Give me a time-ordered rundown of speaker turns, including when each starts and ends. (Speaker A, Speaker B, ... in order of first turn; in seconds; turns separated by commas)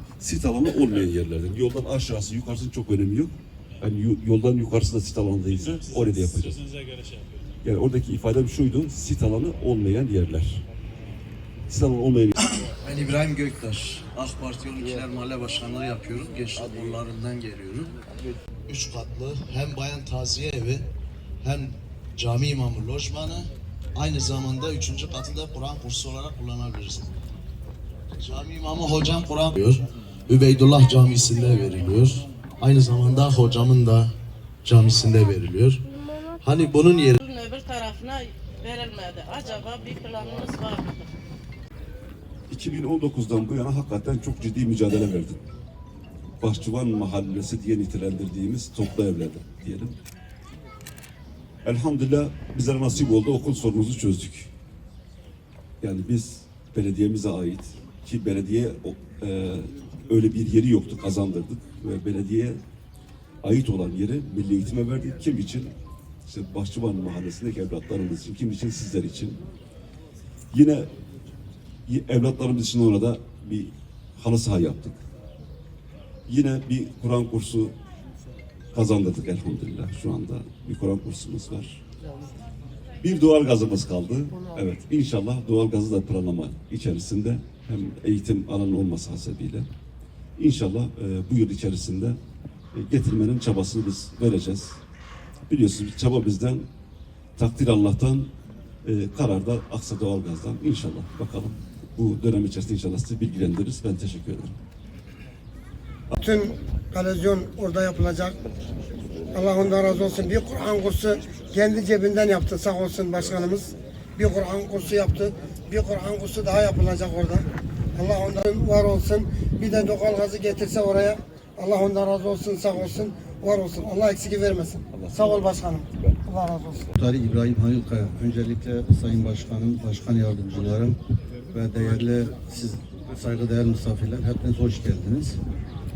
Speaker A: 0.2-6.6, Speaker B: 5.5-7.5, Speaker A: 7.6-10.7, Speaker A: 11.7-12.4, Speaker C: 12.4-17.9, Speaker C: 18.7-20.9, Speaker C: 21.4-27.1, Speaker C: 28.2-34.1, Speaker C: 34.6-35.8, Speaker C: 36.4-37.2, Speaker D: 37.2-41.1, Speaker A: 42.5-45.4, Speaker A: 46.4-50.0, Speaker A: 51.6-54.5, Speaker A: 55.8-62.6, Speaker A: 63.4-65.7, Speaker A: 66.2-69.4, Speaker A: 70.5-70.9, Speaker A: 71.9-75.0, Speaker A: 76.3-77.7, Speaker A: 78.7-81.8, Speaker A: 83.0-89.7, Speaker A: 90.4-92.2, Speaker A: 92.7-94.8, Speaker A: 95.5-96.7, Speaker A: 97.4-98.3, Speaker A: 98.8-104.5, Speaker E: 106.2-108.4, Speaker E: 109.3-126.9, Speaker A: 124.9-125.2, Speaker F: 126.9-131.0, Speaker F: 131.5-135.4